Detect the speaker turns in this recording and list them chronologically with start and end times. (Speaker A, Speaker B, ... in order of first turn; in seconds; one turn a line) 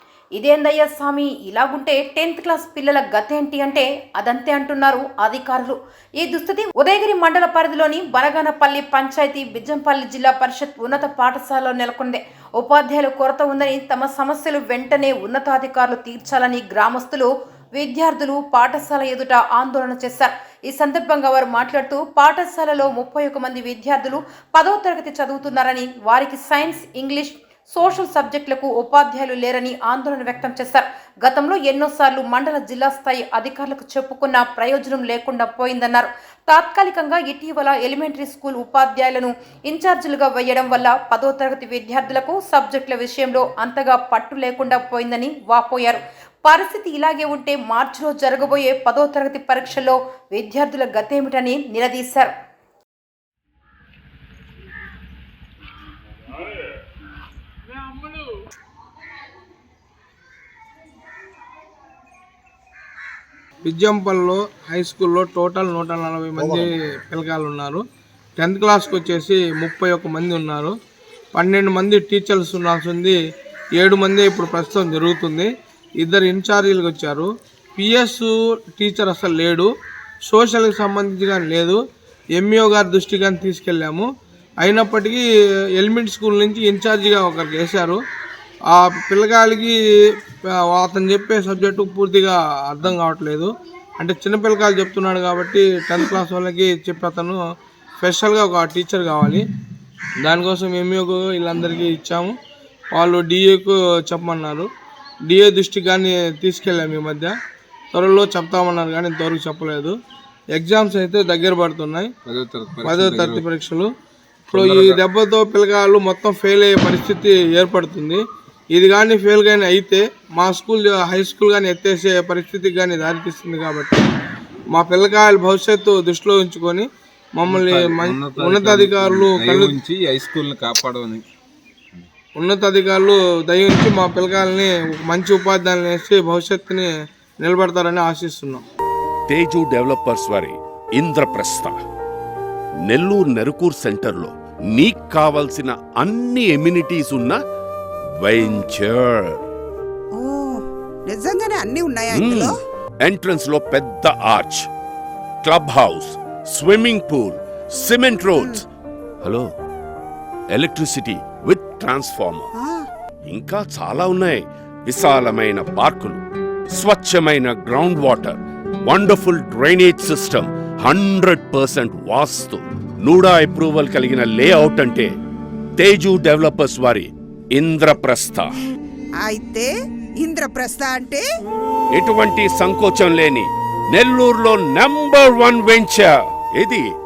Speaker A: 0.3-52.3
Speaker B: 63.6-67.8
Speaker B: 68.4-70.7
Speaker B: 71.3-73.2
Speaker B: 73.8-79.7
Speaker B: 80.2-81.8
Speaker B: 82.3-84.1
Speaker B: 84.6-85.2
Speaker B: 85.8-88.0
Speaker B: 88.7-89.7
Speaker B: 90.4-97.4
Speaker B: 98.0-99.4
Speaker B: 100.2-102.3
Speaker B: 102.9-104.7
Speaker B: 105.3-107.3
Speaker B: 107.9-109.9
Speaker B: 110.5-112.1
Speaker C: 112.2-113.5
Speaker B: 112.8-113.9
Speaker B: 114.5-118.2
Speaker C: 114.5-115.0
Speaker B: 118.7-124.1
Speaker B: 124.7-129.8
Speaker C: 127.4-131.2
Speaker B: 132.3-136.9
Speaker B: 137.4-138.6
Speaker D: 139.3-141.8
Speaker D: 142.8-147.4
Speaker D: 148.2-149.4
Speaker E: 150.1-152.6
Speaker D: 152.1-154.7
Speaker D: 155.4-158.6
Speaker E: 158.3-158.6
Speaker D: 160.5-162.5
Speaker E: 162.6-162.9
Speaker D: 163.3-166.2
Speaker D: 166.7-175.1
Speaker D: 175.8-178.5
Speaker E: 179.2-179.7
Speaker E: 180.2-181.2
Speaker D: 181.9-186.9